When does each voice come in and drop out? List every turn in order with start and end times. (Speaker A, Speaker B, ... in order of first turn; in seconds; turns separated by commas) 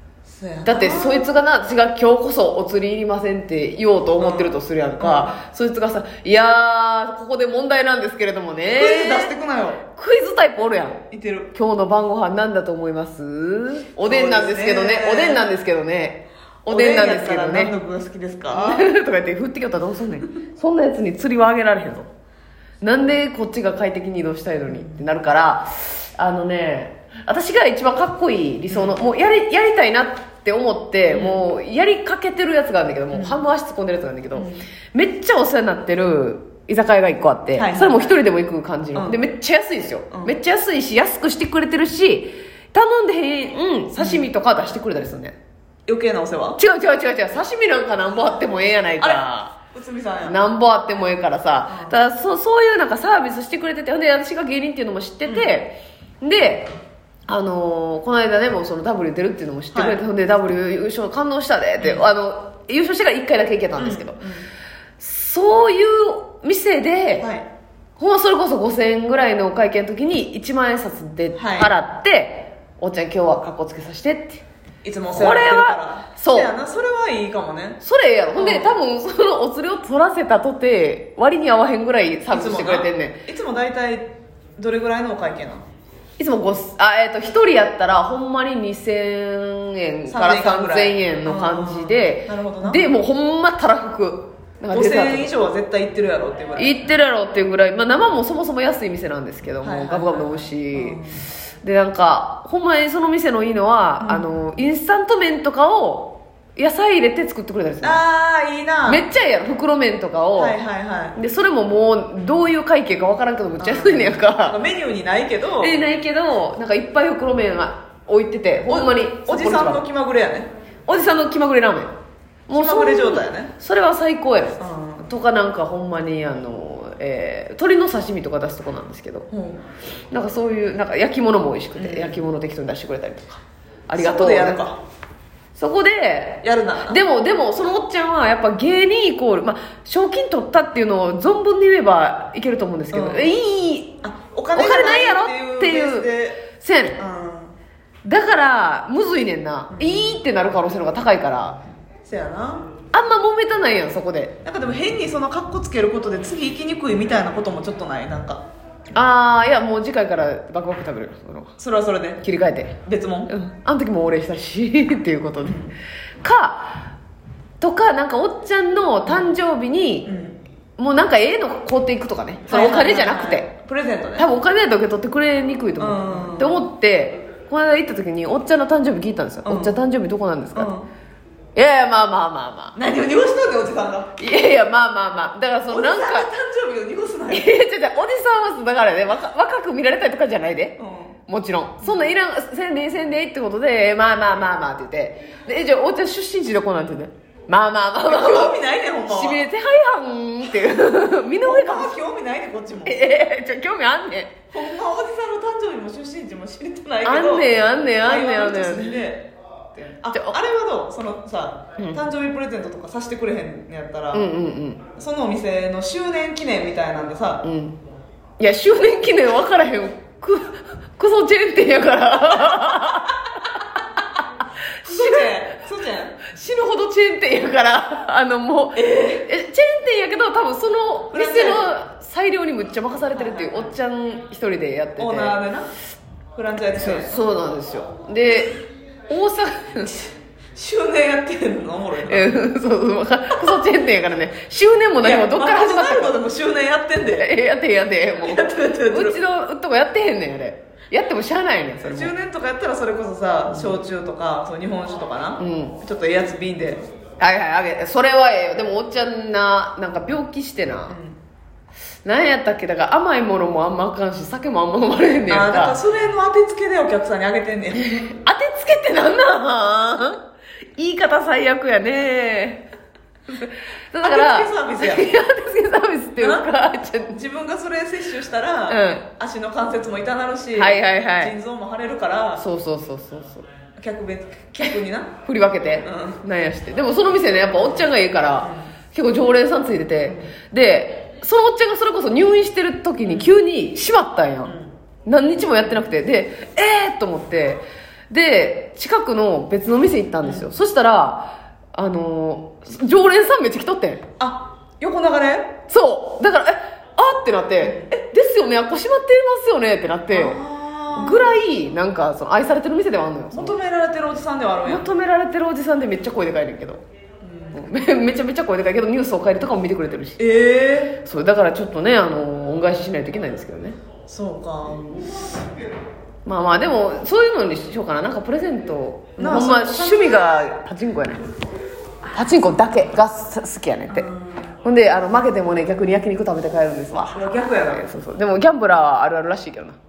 Speaker A: 0.3-1.3, Speaker B: 0.7-9.3, Speaker A: 4.2-5.4, Speaker A: 8.6-9.8, Speaker B: 9.9-17.7, Speaker A: 11.1-11.5, Speaker A: 14.0-15.6, Speaker A: 16.7-18.9, Speaker B: 18.5-22.1, Speaker B: 22.8-45.4, Speaker A: 24.7-25.1, Speaker A: 28.7-29.0, Speaker A: 31.1-31.5, Speaker A: 33.1-33.4, Speaker A: 34.3-34.7, Speaker A: 37.6-38.1, Speaker A: 39.0-39.3, Speaker A: 40.1-40.4, Speaker A: 44.0-44.2, Speaker A: 45.9-46.6, Speaker B: 46.6-49.6, Speaker A: 49.0-50.4, Speaker B: 50.2-56.7, Speaker A: 51.7-52.0, Speaker A: 55.3-55.5, Speaker B: 57.3-64.2, Speaker A: 59.7-60.0, Speaker A: 61.8-62.1, Speaker A: 63.8-64.5, Speaker B: 65.0-67.3, Speaker A: 67.2-67.5, Speaker B: 68.0-74.4, Speaker A: 71.4-71.7, Speaker A: 74.8-77.8, Speaker B: 75.1-76.5, Speaker B: 77.8-83.2, Speaker A: 78.3-78.8, Speaker A: 82.3-85.6, Speaker B: 86.2-95.3, Speaker A: 90.1-92.9, Speaker A: 94.7-96.8, Speaker B: 96.6-101.0, Speaker A: 99.6-101.2, Speaker B: 101.6-108.0, Speaker A: 104.0-104.3, Speaker A: 107.8-109.1, Speaker B: 108.9-110.6, Speaker A: 110.4-111.2, Speaker B: 111.2-114.6, Speaker A: 113.6-115.8, Speaker B: 115.6-119.8, Speaker A: 118.7-120.5, Speaker B: 120.9-121.9, Speaker B: 122.5-129.3, Speaker A: 122.5-123.5, Speaker A: 124.6-125.1, Speaker A: 129.3-129.7, Speaker B: 130.1-134.6, Speaker A: 131.8-132.3, Speaker A: 133.9-134.8, Speaker B: 135.6-144.0, Speaker A: 136.4-137.0, Speaker A: 142.9-143.3, Speaker A: 144.0-146.5, Speaker B: 144.6-147.0, Speaker A: 147.0-147.6, Speaker B: 148.0-151.6, Speaker A: 149.7-150.2, Speaker A: 152.0-152.7, Speaker B: 152.9-154.3, Speaker A: 154.4-158.4, Speaker B: 158.9-161.5, Speaker A: 161.6-162.2, Speaker B: 162.2-165.6, Speaker A: 162.8-163.3, Speaker A: 165.4-165.8, Speaker B: 166.2-166.9, Speaker B: 167.6-170.1, Speaker A: 170.1-170.4, Speaker B: 170.8-173.5, Speaker A: 172.5-174.3, Speaker B: 174.2-180.7, Speaker A: 175.8-176.6, Speaker A: 179.4-179.8, Speaker A: 180.6-180.9, Speaker B: 181.6-182.8, Speaker A: 182.8-184.1, Speaker B: 184.2-186.3, Speaker A: 185.7-187.6, Speaker B: 187.3-201.9, Speaker A: 190.8-191.2, Speaker A: 191.8-192.2, Speaker A: 198.0-199.5, Speaker A: 201.4-203.1, Speaker B: 202.8-204.4, Speaker A: 204.5-214.3, Speaker B: 207.0-209.0, Speaker B: 210.1-210.4, Speaker B: 214.1-214.8, Speaker A: 215.0-217.4, Speaker B: 217.4-217.8, Speaker B: 218.4-223.8, Speaker B: 224.8-225.4, Speaker A: 224.8-226.2, Speaker B: 226.2-235.4, Speaker A: 228.8-229.3, Speaker A: 231.1-231.7, Speaker A: 233.1-233.7, Speaker A: 235.0-235.7, Speaker A: 236.3-237.2, Speaker B: 236.8-240.1, Speaker A: 240.6-242.3, Speaker B: 242.1-246.2, Speaker A: 245.0-247.3, Speaker B: 247.0-252.1, Speaker A: 248.2-249.2, Speaker A: 251.8-256.9, Speaker B: 253.5-253.8, Speaker B: 255.4-255.8, Speaker B: 257.2-261.0, Speaker A: 260.9-261.2, Speaker B: 262.1-265.8, Speaker A: 265.3-267.8, Speaker B: 267.7-270.2, Speaker B: 270.8-272.7, Speaker B: 273.3-277.2, Speaker A: 274.0-275.2, Speaker A: 276.2-276.5, Speaker A: 277.1-282.4, Speaker B: 278.7-279.1, Speaker B: 280.5-281.3, Speaker B: 282.4-283.4, Speaker A: 283.8-285.2, Speaker B: 285.2-294.5, Speaker A: 285.8-286.2, Speaker A: 288.4-288.7, Speaker A: 290.1-290.3, Speaker A: 293.0-293.4, Speaker A: 294.4-294.8, Speaker B: 295.1-304.1, Speaker A: 300.2-300.5, Speaker A: 304.2-305.6, Speaker B: 305.7-310.4, Speaker A: 307.6-307.9, Speaker A: 310.1-311.4, Speaker B: 310.9-313.6, Speaker A: 313.3-314.9, Speaker B: 314.6-316.8, Speaker A: 317.2-317.6, Speaker B: 317.5-320.2, Speaker A: 320.2-321.0, Speaker B: 321.0-323.8, Speaker A: 324.1-324.9, Speaker B: 324.7-325.2, Speaker B: 326.2-331.4, Speaker A: 329.2-330.4, Speaker B: 332.1-334.1, Speaker A: 333.9-334.5, Speaker B: 334.6-339.8, Speaker A: 336.9-337.9